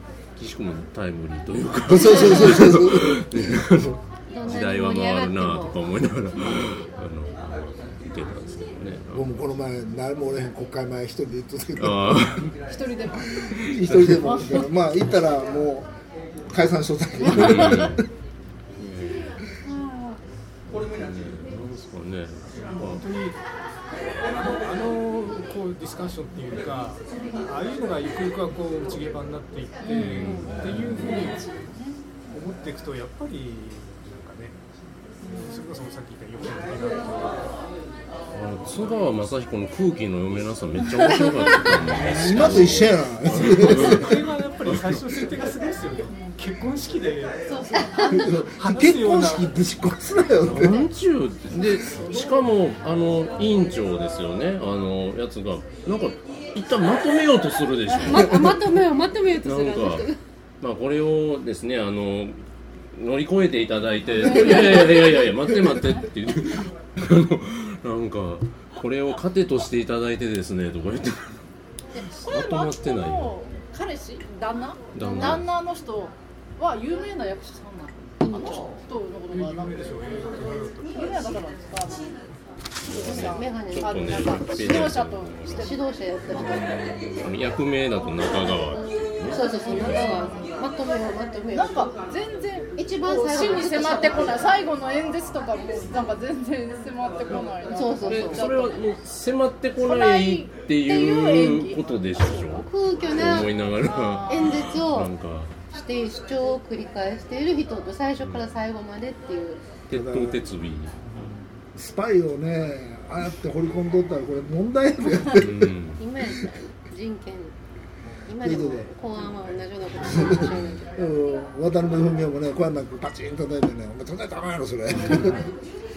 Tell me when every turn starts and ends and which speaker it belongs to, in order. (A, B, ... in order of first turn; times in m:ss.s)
0:00.4-0:09.5 A
0:01.9-0:04.0 B
0:04.3-0:05.8 C
0:09.1-0:12.4 B
0:11.8-0:12.6 A
0:12.7-0:13.4 D
0:13.4-0:14.4 A
0:13.4-0:15.9 B
0:14.2-0:14.7 D
0:16.5-0:18.0 B
0:17.3-0:17.9 D
0:17.3-0:18.0 A
0:18.8-0:19.4 A
0:19.7-0:20.2 D
0:20.7-0:23.0 A
0:22.8-0:23.4 E
0:24.3-0:31.5 E
0:29.8-0:32.1 D
0:30.0-0:31.3 A
0:32.3-0:34.6 E
0:35.2-0:35.6 D
0:35.3-0:37.5 E
0:38.3-0:45.0 A
0:42.0-0:42.8 E
0:42.0-0:44.2 B
0:43.3-0:47.5 E
0:46.1-0:46.4 D
0:47.5-0:48.5 D
0:48.1-0:50.9 B
0:48.4-0:49.6 E
0:50.4-0:58.7 A
0:58.0-1:00.2 C
0:59.4-1:00.1 A
1:00.6-1:02.4 A
1:02.9-1:11.4 A
1:04.2-1:05.1 D
1:11.9-1:19.9 D
1:12.3-1:13.3 A
1:14.9-1:15.5 A
1:15.0-1:15.4 C
1:18.2-1:18.7 C
1:19.3-1:21.5 E
1:20.9-1:22.2 D
1:22.9-1:25.8 A
1:22.9-1:25.8 D
1:22.9-1:24.9 C
1:25.6-1:26.7 C
1:26.3-1:30.3 A
1:28.8-1:32.0 C
1:29.4-1:30.4 D
1:31.5-1:38.9 D
1:32.8-1:34.5 C
1:37.7-1:38.5 C
1:38.0-1:45.6 A
1:39.8-1:42.7 D
1:42.6-1:43.5 C
1:43.8-1:44.6 D
1:44.3-1:45.1 C
1:45.7-1:49.8 C
1:48.2-1:48.5 A
1:49.9-1:51.1 A
1:49.9-1:50.4 B
1:51.2-1:55.8 B
1:55.4-1:56.0 A
1:56.0-1:57.6 C
1:58.3-2:01.1 C
1:58.4-1:58.9 B
2:00.0-2:05.5 B